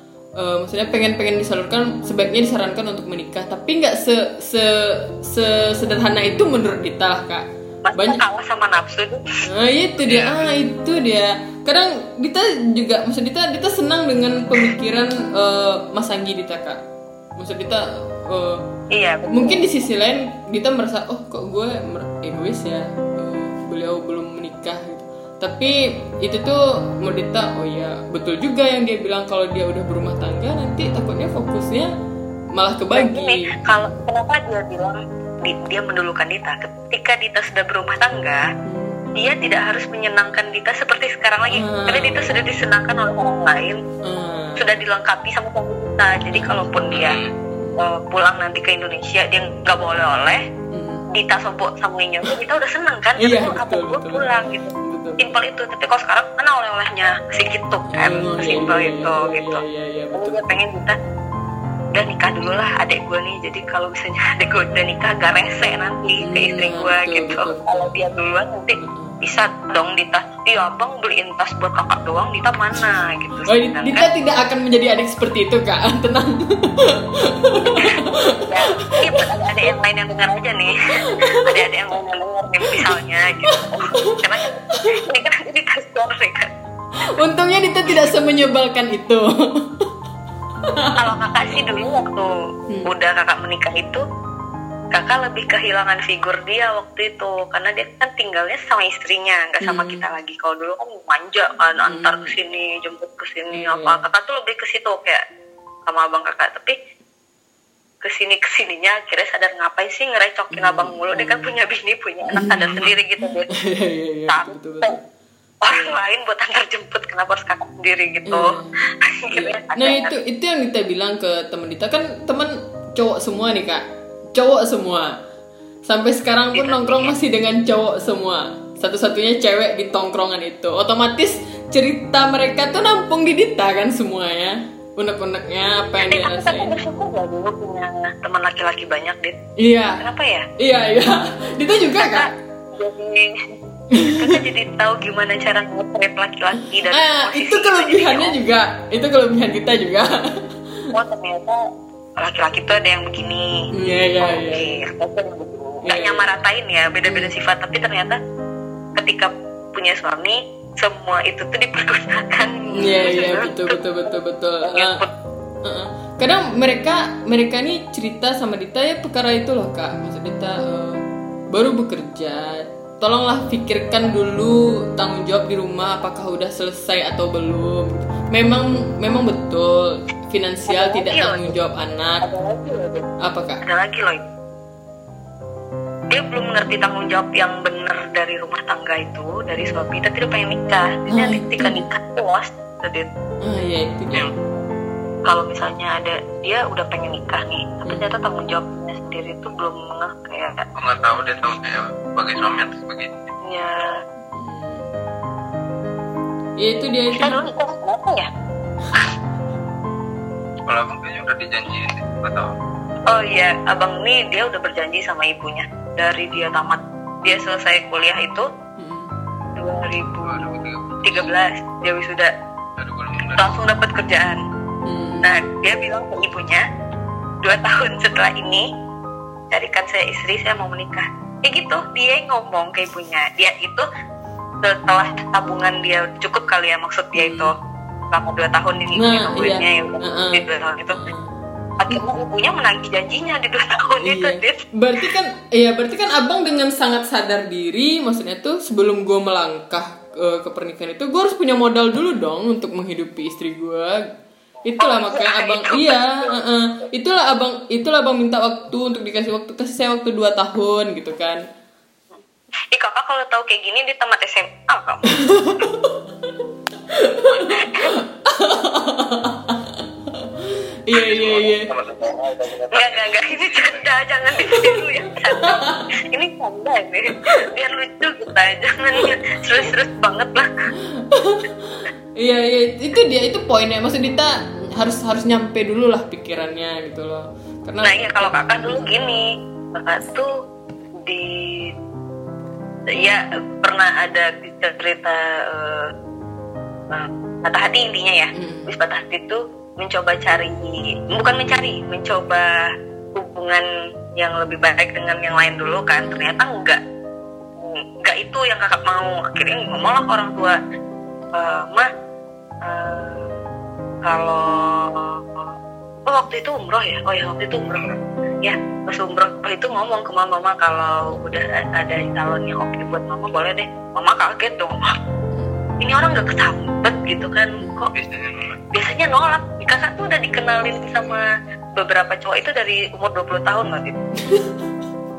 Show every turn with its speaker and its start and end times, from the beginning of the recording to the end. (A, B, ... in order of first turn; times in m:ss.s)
0:00.4-0:08.2 A
0:07.8-0:09.4 B
0:09.5-0:16.8 A
0:10.0-0:10.4 C
0:17.4-0:18.6 A
0:18.9-0:19.6 B
0:19.3-0:31.9 A
0:32.5-0:33.7 A
0:32.9-0:38.5 B
0:38.6-0:39.0 A
0:39.1-0:43.8 B
0:41.5-0:42.4 A
0:44.0-0:44.6 A
0:44.6-0:47.2 B
0:46.3-0:46.6 A
0:46.9-0:47.3 C
0:47.4-0:47.8 A
0:47.8-0:50.4 B
0:50.7-0:51.0 A
0:51.1-1:01.0 B
0:53.2-0:54.3 A
0:54.8-0:55.3 A
0:57.9-1:00.8 A
1:01.9-1:14.1 B
1:06.2-1:08.0 A
1:08.8-1:09.2 A
1:13.4-1:19.2 A
1:17.6-1:26.5 B
1:21.2-1:21.6 A
1:23.5-1:24.2 A
1:27.2-1:29.8 A
1:30.7-1:31.0 A
1:31.0-1:32.3 B
1:32.8-1:34.0 B
1:34.9-1:45.2 B
1:39.6-1:40.1 A
1:41.8-1:42.3 A
1:43.5-1:44.0 A
1:45.9-1:46.8 B
1:48.0-1:53.5 B
1:50.5-1:51.5 A
1:52.3-1:52.9 A
1:53.5-1:55.0 A
1:54.3-1:55.0 B
1:55.6-2:00.1 B
1:55.7-1:56.0 A
1:58.3-1:58.7 A
1:59.3-2:03.8 A
2:04.3-2:05.1 A
2:05.8-2:16.8 A
2:06.5-2:07.2 B
2:16.0-2:19.4 B
2:19.6-2:20.0 A
2:20.0-2:20.5 B
2:20.6-2:22.3 A
2:21.9-2:28.3 B
2:23.9-2:24.4 A
2:26.9-2:30.1 A
2:30.9-2:31.6 B
2:32.2-2:33.7 B
2:33.7-2:34.7 A
2:34.2-2:38.2 B
2:35.8-2:36.3 A
2:37.0-2:37.3 A
2:39.0-2:45.1 B
2:42.8-2:45.0 A
2:45.6-2:51.0 A
2:51.5-3:02.2 A
3:00.7-3:01.6 B
3:02.2-3:03.1 B
3:03.2-3:03.6 A
3:03.6-3:04.2 B
3:06.1-3:13.1 B
3:11.1-3:11.8 A
3:13.4-3:14.3 A
3:15.2-3:20.6 B
3:20.8-3:23.2 C
3:23.4-3:24.0 B
3:24.3-3:24.9 A
3:26.6-3:27.4 A
3:27.2-3:28.3 B
3:30.6-3:32.5 C
3:33.0-3:38.5 B
3:38.8-3:39.1 A
3:39.6-3:42.3 B
3:40.2-3:41.3 C
3:42.8-3:43.6 C
3:43.4-3:44.4 B
3:44.8-3:45.3 A
3:45.2-3:46.6 B
3:47.4-3:48.6 B
3:49.5-3:53.8 B
3:54.6-3:57.5 B
3:57.1-3:57.5 A
3:58.1-4:01.0 B
3:58.9-4:01.4 A
4:01.8-4:04.6 B
4:04.0-4:14.1 A
4:14.6-4:21.4 A
4:14.8-4:16.3 B
4:22.1-4:25.6 B
4:25.2-4:25.9 A
4:26.9-4:27.3 A
4:27.5-4:27.9 B
4:28.2-4:29.8 A
4:30.4-4:31.7 A
4:31.0-4:34.0 C
4:32.7-4:40.5 B
4:35.4-4:35.9 A
4:41.0-4:48.9 A
4:47.8-4:50.3 B
4:51.0-4:51.7 B
4:52.9-4:55.9 B
4:56.9-5:03.6 B
4:58.3-4:58.7 A
5:04.2-5:06.8 B
5:06.0-5:06.4 A
5:07.6-5:10.6 B
5:11.3-5:11.9 B
5:12.6-5:13.3 B
5:14.0-5:15.5 B
5:16.0-5:24.9 B
5:25.8-5:27.9 B
5:27.6-5:27.9 A
5:27.9-5:28.6 C
5:28.7-5:31.2 B
5:31.8-5:34.0 B
5:34.2-5:34.6 A